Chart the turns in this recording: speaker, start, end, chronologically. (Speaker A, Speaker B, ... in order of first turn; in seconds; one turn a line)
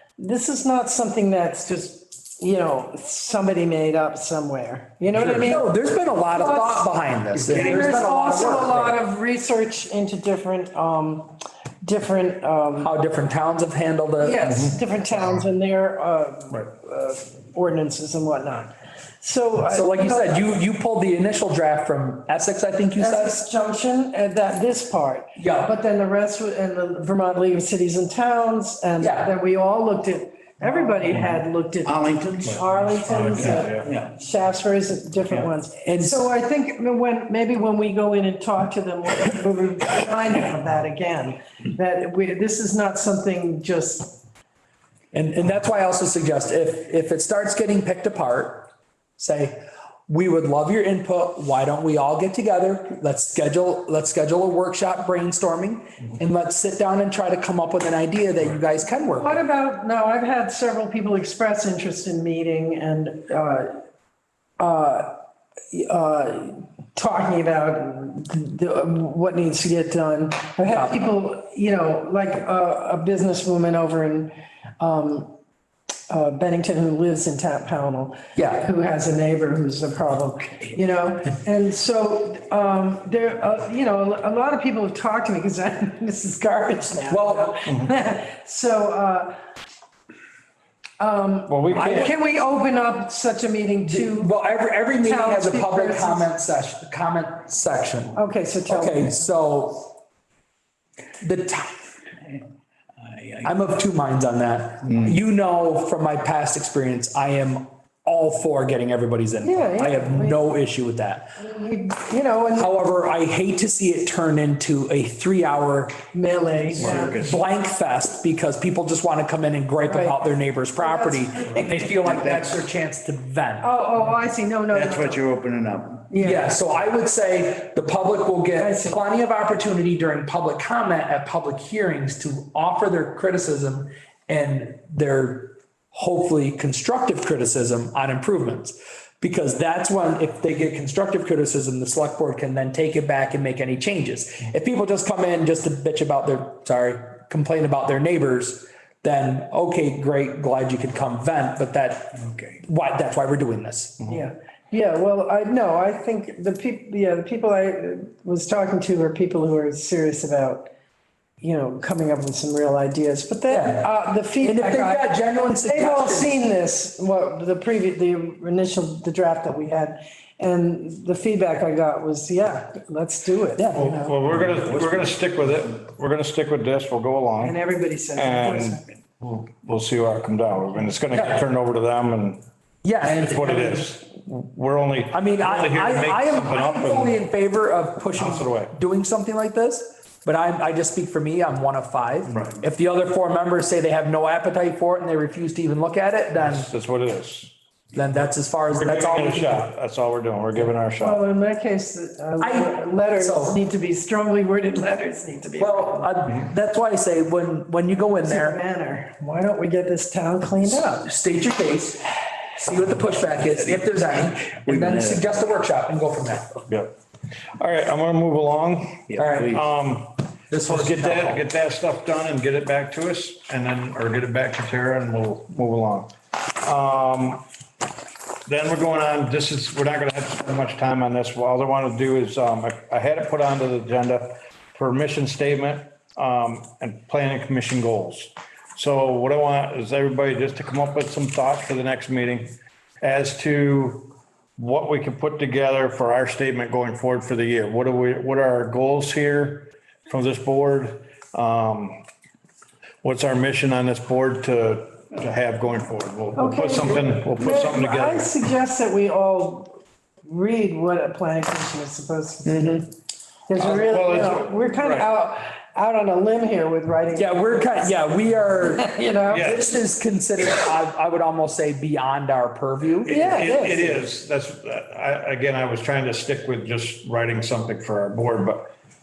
Speaker A: 0.2-5.7
Speaker B: 5.1-5.4
Speaker C: 5.2-8.9
Speaker A: 6.3-12.9
Speaker C: 12.8-14.6
Speaker A: 14.2-20.5
Speaker C: 19.7-23.4
Speaker A: 23.0-44.2
Speaker C: 25.4-25.7
Speaker C: 29.0-29.3
Speaker D: 31.8-32.6
Speaker B: 32.5-33.9
Speaker D: 33.1-34.1
Speaker C: 35.8-36.2
Speaker C: 45.1-59.4
Speaker A: 59.2-63.8
Speaker A: 64.6-75.4
Speaker C: 70.7-71.0
Speaker A: 76.1-89.4
Speaker C: 78.4-78.6
Speaker C: 87.1-87.6
Speaker A: 91.0-94.3
Speaker B: 91.5-92.1
Speaker C: 91.8-92.1
Speaker C: 93.9-100.0
Speaker A: 95.0-96.3
Speaker A: 98.2-99.2
Speaker C: 101.2-101.8
Speaker D: 103.0-103.5
Speaker C: 103.4-111.3
Speaker A: 109.4-110.4
Speaker A: 111.4-112.7
Speaker C: 112.5-116.0
Speaker A: 116.1-117.2
Speaker C: 116.8-123.7
Speaker D: 116.9-117.4
Speaker A: 119.9-120.2
Speaker A: 120.8-122.2
Speaker A: 123.6-125.3
Speaker D: 124.7-126.1
Speaker A: 126.1-126.5
Speaker C: 126.2-154.1
Speaker A: 128.6-129.0
Speaker A: 154.1-160.7
Speaker A: 161.4-174.1
Speaker C: 163.5-166.4
Speaker C: 173.6-174.0
Speaker B: 173.8-177.6
Speaker A: 177.4-178.8
Speaker B: 178.2-182.4
Speaker C: 182.8-183.9
Speaker B: 183.1-187.2
Speaker C: 185.1-196.7
Speaker B: 188.2-188.7
Speaker B: 192.2-192.6
Speaker B: 196.4-197.5
Speaker C: 197.9-199.7
Speaker B: 198.7-201.2
Speaker A: 201.0-206.1
Speaker C: 202.4-203.6
Speaker C: 205.6-208.6
Speaker A: 208.2-211.1
Speaker C: 210.6-216.7
Speaker D: 214.6-215.2
Speaker B: 217.6-227.4
Speaker D: 219.1-219.7
Speaker C: 219.2-219.6
Speaker C: 220.5-221.4
Speaker B: 228.5-252.0
Speaker B: 253.0-258.4
Speaker A: 256.4-262.7
Speaker A: 263.5-267.7
Speaker B: 263.6-265.1
Speaker C: 267.1-273.2
Speaker A: 268.6-269.6
Speaker B: 269.3-269.6
Speaker A: 273.1-274.0
Speaker B: 273.1-278.7